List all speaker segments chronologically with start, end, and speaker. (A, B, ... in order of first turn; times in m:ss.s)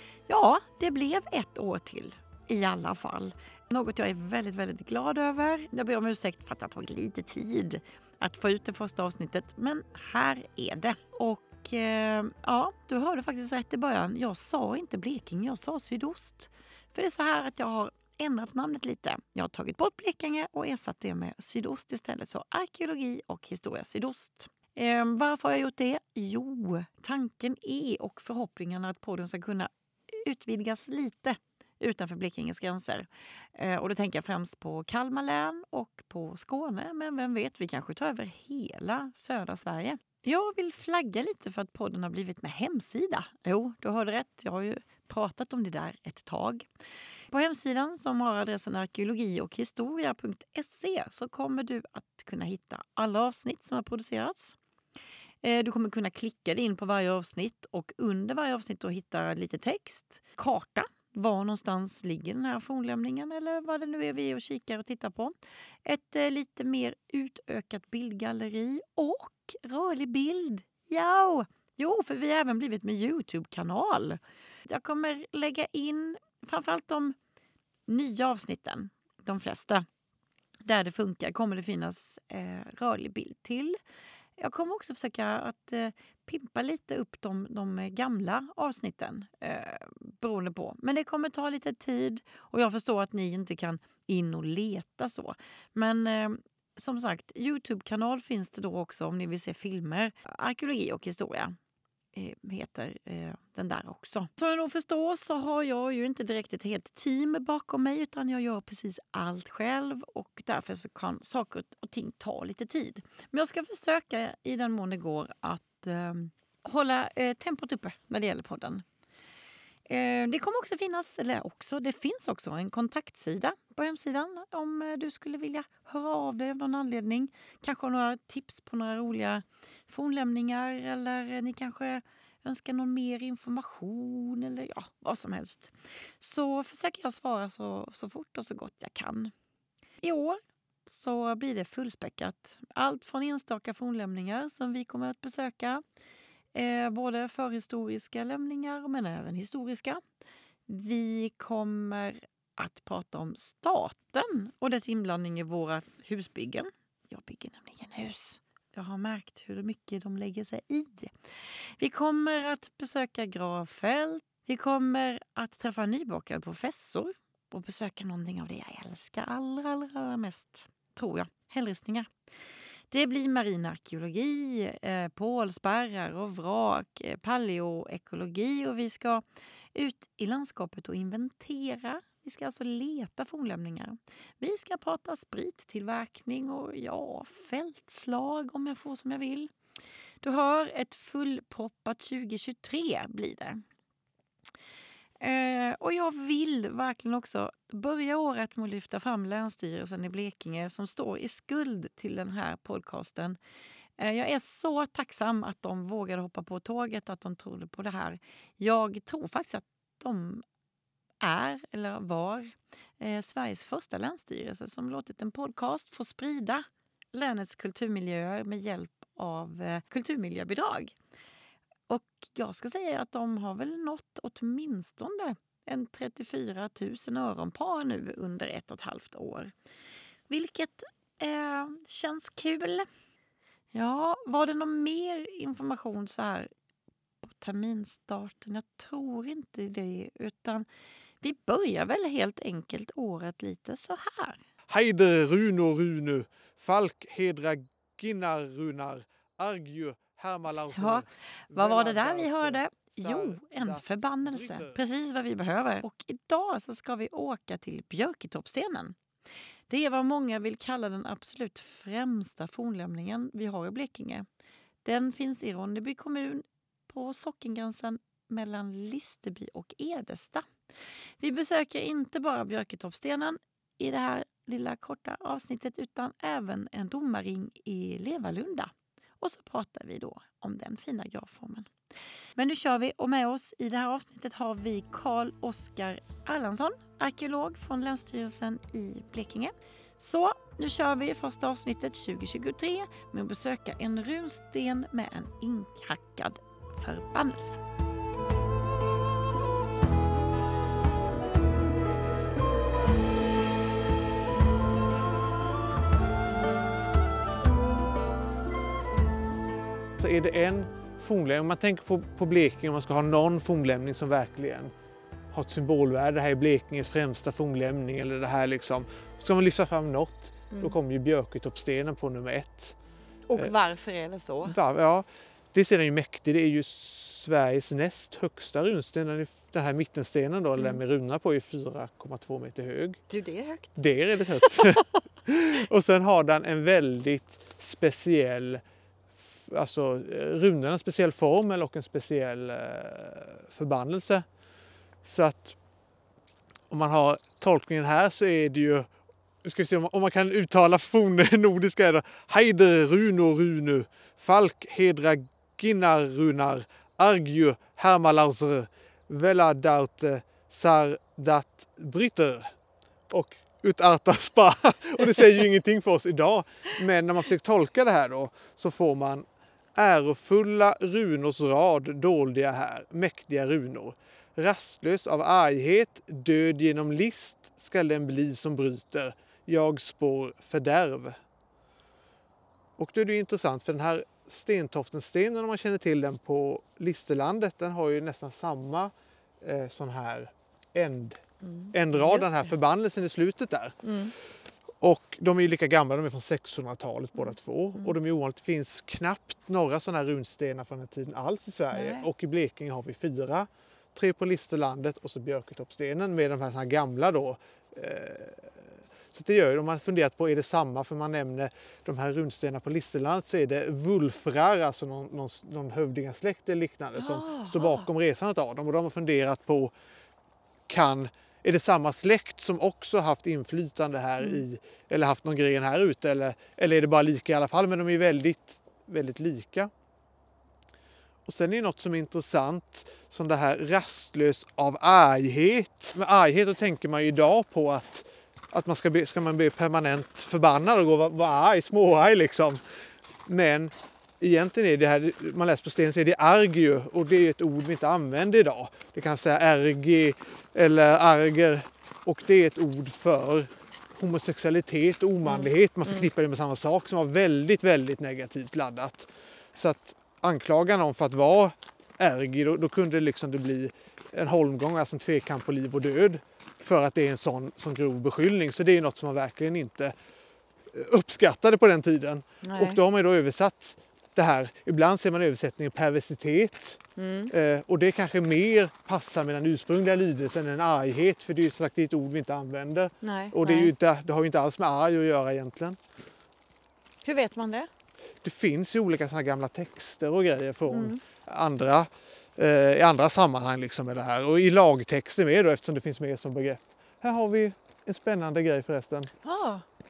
0:00.3-0:46.7 A
0:47.3-0:54.6 A
0:55.4-1:05.3 A
1:05.8-1:17.2 A
1:17.9-1:19.8 A
1:20.6-1:23.8 A
1:24.4-1:41.6 A
1:42.1-1:58.8 A
1:59.9-2:19.3 A
2:20.0-2:25.8 A
2:26.6-2:30.0 A
2:30.7-2:41.1 A
2:41.8-2:52.1 A
2:52.9-2:59.2 A
2:59.8-3:09.5 A
3:10.2-3:13.6 A
3:15.2-3:23.4 A
3:24.0-3:30.4 A
3:31.2-3:40.9 A
3:41.9-3:49.5 A
3:50.3-3:52.9 A
3:53.7-3:56.5 A
3:57.2-4:00.7 A
4:01.2-4:04.4 A
4:04.7-4:14.8 B
4:10.7-4:19.0 A
4:19.7-4:24.3 A
4:24.8-4:30.5 A
4:31.2-4:41.7 A
4:42.4-4:57.6 A
5:10.0-5:14.7 B
5:15.3-5:22.8 B
5:20.5-5:20.8 A
5:23.3-5:24.6 A
5:24.4-5:33.0 B
5:33.1-5:33.8 A
5:33.8-5:38.6 B
5:34.4-5:34.8 A
5:39.2-5:44.2 B
5:45.0-5:45.6 B
5:46.7-5:48.9 B
5:49.4-6:02.5 B
6:03.1-6:21.2 B
6:22.8-6:31.2 B
6:31.4-6:32.5 A
6:31.7-6:33.8 B
6:33.8-6:34.1 A
6:34.8-6:59.7 B
6:37.2-6:38.0 A
6:41.7-6:42.1 A
6:57.0-6:57.9 A
7:00.7-7:09.7 B
7:11.2-7:22.6 B
7:23.3-7:49.9 B
7:35.2-7:36.1 A
7:50.7-8:05.8 B
7:52.4-7:52.8 A
7:57.0-7:57.3 A
8:03.0-8:03.7 A
8:07.0-8:07.7 A
8:08.2-8:19.1 B
8:10.7-8:11.0 A
8:19.2-8:19.6 A